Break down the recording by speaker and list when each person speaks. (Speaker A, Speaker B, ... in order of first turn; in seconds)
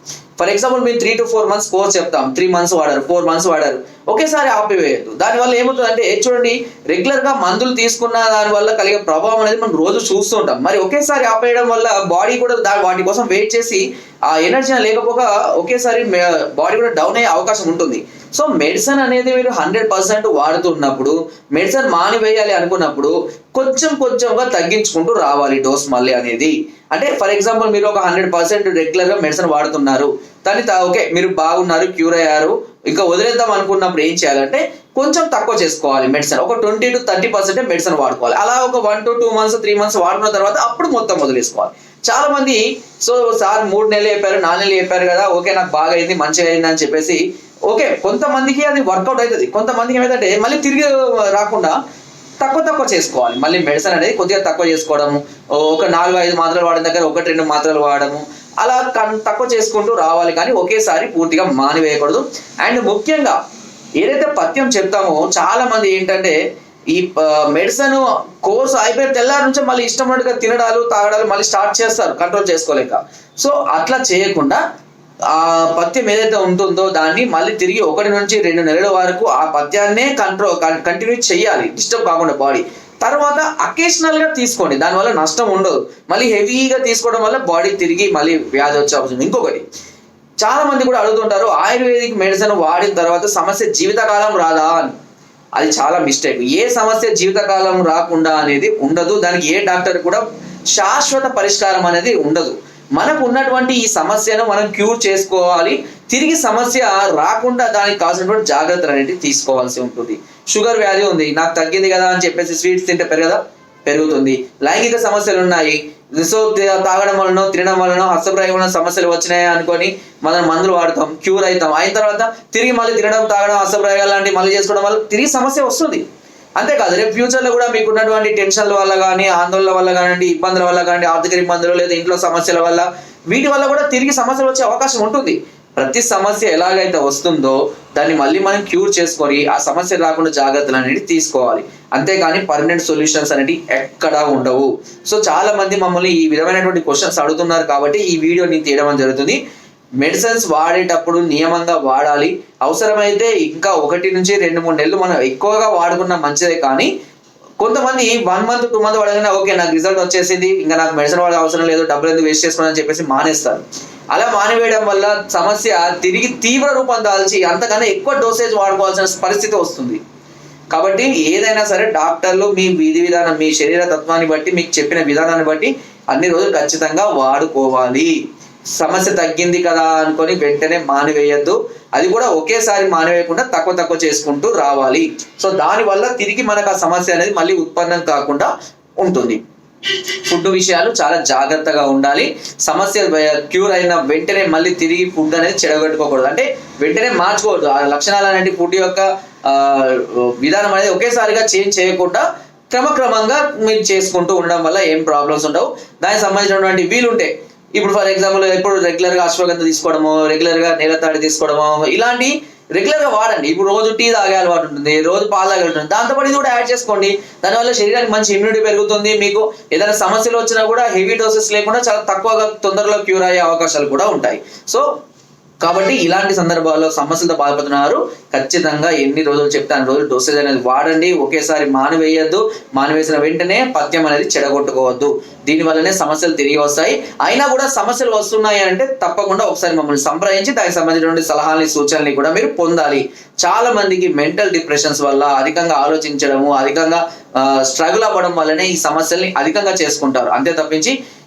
Speaker A: 0.4-51.8, 52.4-63.4, 64.0-66.4, 66.9-74.6, 75.3-89.6, 90.4-95.0, 95.6-100.2, 100.7-126.0, 126.6-149.4, 150.0-156.9, 157.6-170.0, 170.7-178.1, 178.8-188.5, 189.0-224.9, 225.6-250.9